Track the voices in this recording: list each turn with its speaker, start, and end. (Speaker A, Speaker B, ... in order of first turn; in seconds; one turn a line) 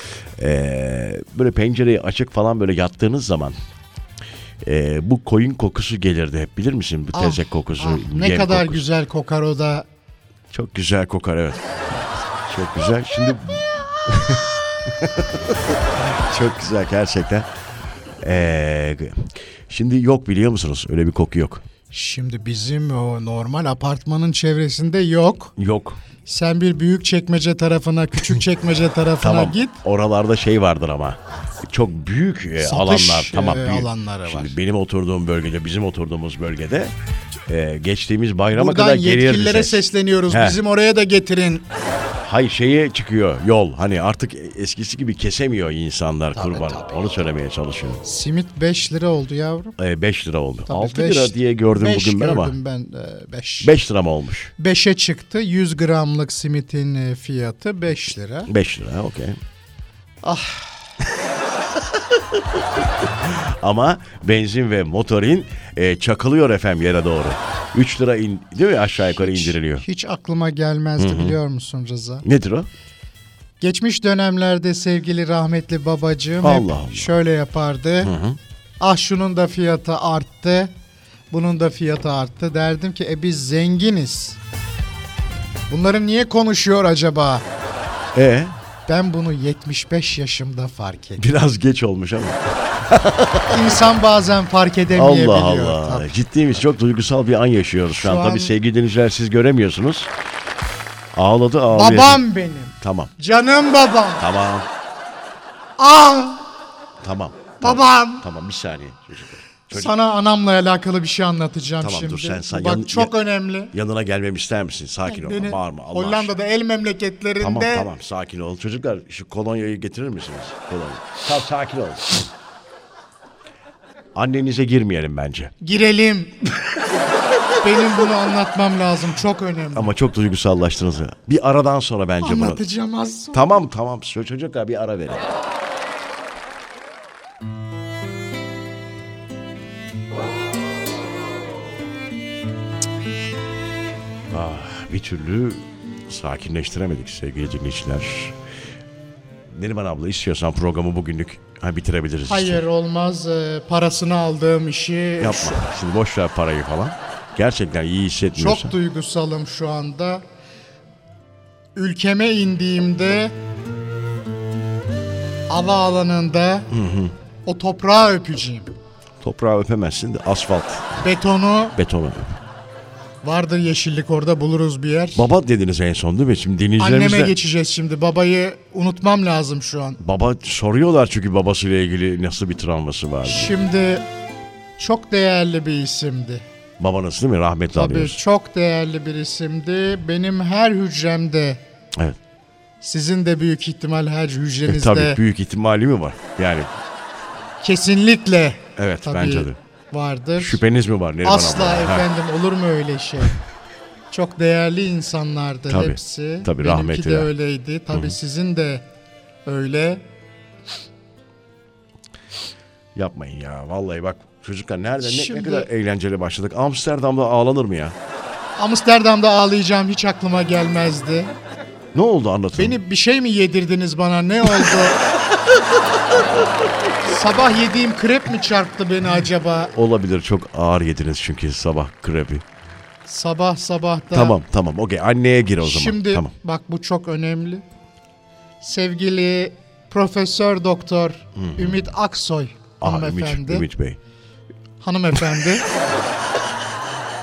Speaker A: 0.4-3.5
Speaker A: 4.6-8.8
Speaker B: 7.1-9.9
Speaker A: 10.5-11.6
Speaker A: 12.5-17.5
Speaker A: 18.2-21.6
Speaker B: 21.9-25.5
Speaker A: 25.6-26.0
Speaker B: 26.2-29.8
Speaker A: 29.2-36.9
Speaker B: 32.6-34.5
Speaker A: 37.5-40.6
Speaker B: 38.5-41.6
Speaker A: 42.2-48.0
Speaker B: 46.4-46.9
Speaker B: 48.0-49.8
Speaker A: 49.8-52.5
Speaker B: 50.7-53.8
Speaker A: 53.6-54.5
Speaker B: 54.6-58.5
Speaker A: 58.5-59.4
Speaker B: 60.2-60.9
Speaker A: 63.2-69.8
Speaker B: 69.2-72.2
Speaker A: 71.0-71.3
Speaker A: 72.2-72.7
Speaker B: 73.6-78.1
Speaker A: 76.4-77.1
Speaker A: 78.0-78.4
Speaker B: 78.8-80.7
Speaker B: 81.3-84.4
Speaker B: 85.7-87.4
Speaker A: 88.1-88.5
Speaker B: 88.9-91.2
Speaker A: 91.2-93.7
Speaker B: 93.5-96.1
Speaker A: 94.9-100.1
Speaker B: 98.0-98.5
Speaker A: 101.1-102.2
Speaker B: 101.7-104.2
Speaker A: 102.8-103.1
Speaker A: 104.2-104.7
Speaker B: 105.8-106.5
Speaker A: 107.0-109.9
Speaker B: 107.6-108.2
Speaker B: 109.7-113.7
Speaker A: 111.8-113.1
Speaker A: 113.7-116.3
Speaker B: 115.1-117.9
Speaker A: 117.4-122.2
Speaker A: 124.1-125.5
Speaker B: 125.6-126.6
Speaker B: 127.6-129.9
Speaker A: 129.7-132.6
Speaker B: 132.2-133.6
Speaker A: 133.3-135.2
Speaker A: 144.3-148.3
Speaker A: 149.5-152.6
Speaker B: 152.3-155.6
Speaker A: 155.2-158.7
Speaker B: 158.4-160.2
Speaker B: 161.8-163.3
Speaker B: 165.5-166.7
Speaker A: 166.7-167.1
Speaker B: 167.4-168.7
Speaker A: 169.2-171.0
Speaker B: 171.0-171.8
Speaker A: 171.8-172.3
Speaker B: 173.2-175.3
Speaker A: 175.2-177.3
Speaker B: 176.8-180.0
Speaker A: 180.0-183.6
Speaker B: 183.2-184.0
Speaker B: 184.8-186.4
Speaker A: 186.8-188.2
Speaker B: 187.7-191.6
Speaker B: 192.8-195.2
Speaker A: 194.7-196.7
Speaker B: 197.6-200.6
Speaker A: 198.8-199.6
Speaker A: 200.4-202.1
Speaker B: 201.2-203.4
Speaker B: 204.1-208.8
Speaker A: 205.7-207.3
Speaker B: 209.4-210.0
Speaker A: 212.9-217.9
Speaker B: 215.0-215.7
Speaker B: 218.6-221.3
Speaker A: 221.9-222.8
Speaker B: 222.6-225.1
Speaker B: 227.0-229.7
Speaker A: 229.7-232.4
Speaker B: 233.1-234.4
Speaker A: 234.1-236.3
Speaker B: 235.6-237.6
Speaker B: 238.6-243.7
Speaker A: 241.4-241.7
Speaker A: 242.8-244.0
Speaker B: 244.8-245.7